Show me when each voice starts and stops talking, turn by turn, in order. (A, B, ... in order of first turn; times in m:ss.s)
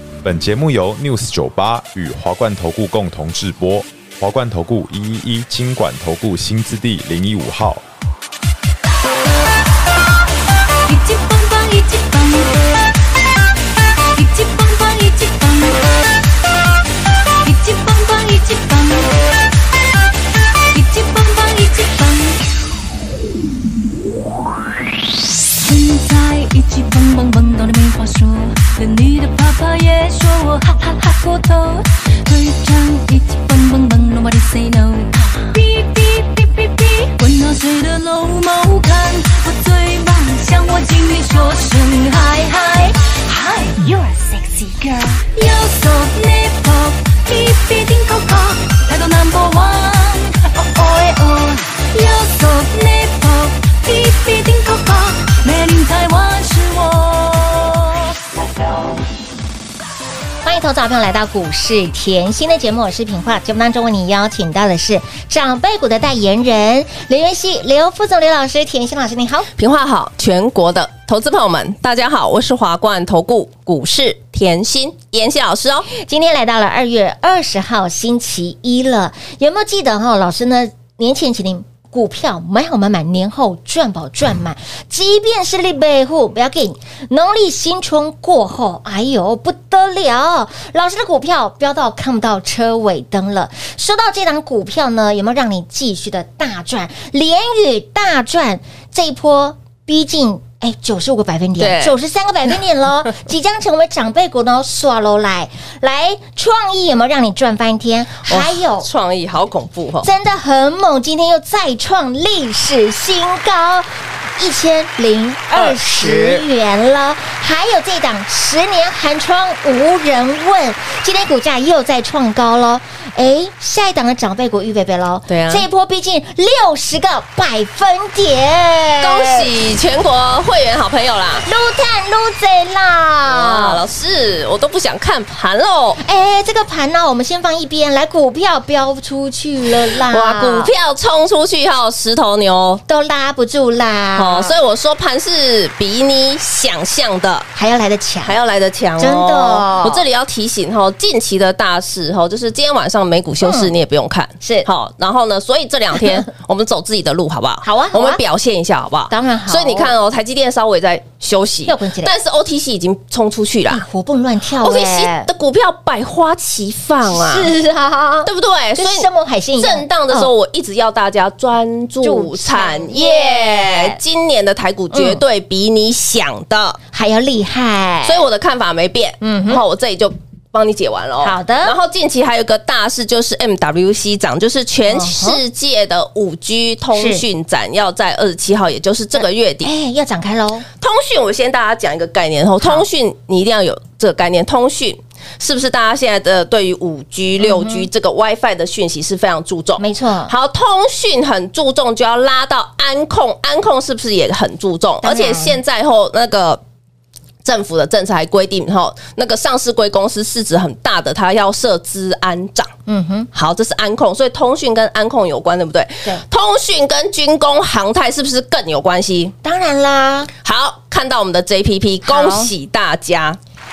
0:00.2-0:07.8 A
0:10.8-0:12.7 B
0:14.1-0:16.0 B
0:17.4-0:19.4 B
0:20.7-0:22.4 B
0:25.6-0:58.2 B
1:00.4-1:09.5 C
1:09.6-1:15.9 D
1:15.9-1:48.9 C
1:41.6-1:42.0 D
1:48.3-1:50.1 D
1:50.0-2:09.5 C
1:55.6-1:56.4 D
2:05.3-2:05.7 D
2:09.0-2:11.5 D
2:11.4-2:13.8 C
2:13.3-2:16.0 D
2:16.0-2:20.7 C
2:19.9-2:22.8 D
2:22.9-2:24.6 C
2:24.2-2:27.5 D
2:27.6-2:28.4 C
2:28.2-2:43.8 D
2:29.0-2:30.0 C
2:33.4-2:33.7 C
2:34.4-2:34.7 C
2:37.6-2:38.2 C
2:39.1-2:39.9 C
2:41.7-2:42.1 C
2:43.7-2:45.3 C
2:44.6-2:47.5 D
2:47.1-2:50.3 C
2:48.2-2:49.1 D
2:49.6-2:56.8 D
2:52.0-2:54.0 C
2:54.9-2:55.2 C
2:56.9-2:58.2 C
2:58.1-3:09.7 D
2:59.2-2:59.6 C
3:01.2-3:01.8 C
3:04.9-3:05.4 C
3:06.9-3:07.2 C
3:09.2-3:10.7 C
3:10.8-3:26.6 D
3:17.4-3:17.9 C
3:19.8-3:20.3 C
3:25.0-3:25.6 C
3:27.4-3:32.7 D
3:32.9-3:33.3 C
3:33.3-3:39.3 D
3:39.4-3:40.3 C
3:40.4-3:43.4 D
3:42.1-3:42.5 C